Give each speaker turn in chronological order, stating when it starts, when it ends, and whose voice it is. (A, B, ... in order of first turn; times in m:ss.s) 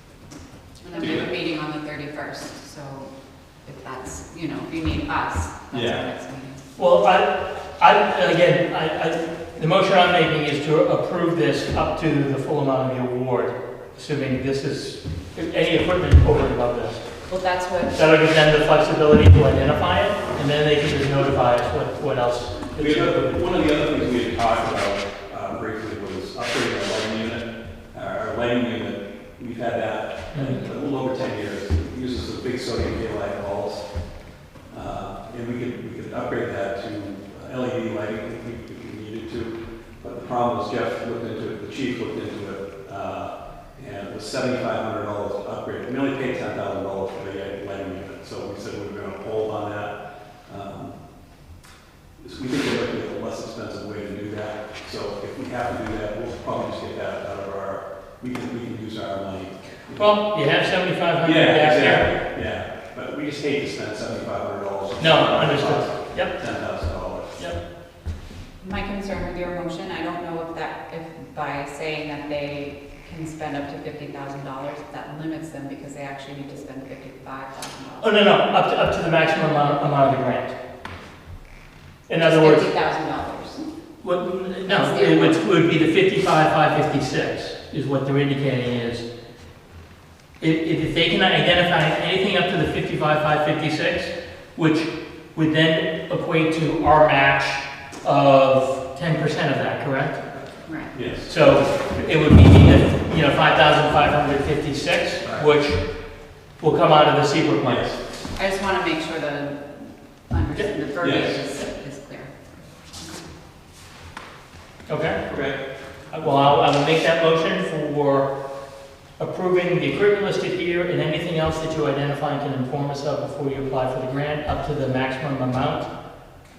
0:00.8-0:06.6 A
0:01.0-0:01.3 B
0:05.7-0:06.0 B
0:06.8-0:17.3 C
0:17.3-0:18.0 A
0:17.9-0:23.4 C
0:22.8-0:51.2 B
0:30.3-0:30.6 C
0:52.2-1:00.3 B
1:00.0-1:02.1 C
1:01.2-1:07.4 B
1:05.0-1:06.8 C
1:08.6-1:18.1 A
1:18.0-1:20.6 C
1:22.1-1:22.7 C
1:22.2-1:23.6 A
1:24.0-1:29.1 C
1:24.7-1:25.4 A
1:30.4-1:40.2 C
1:40.6-1:41.0 A
1:40.9-1:41.3 B
1:41.2-1:45.9 C
1:45.2-1:45.5 B
1:46.6-1:47.9 C
1:47.6-1:48.0 B
1:48.3-1:53.2 A
1:51.0-1:51.4 B
1:54.9-1:55.4 C
1:55.2-1:55.6 B
1:56.1-1:58.3 C
1:56.2-1:56.5 B
1:59.2-2:05.9 C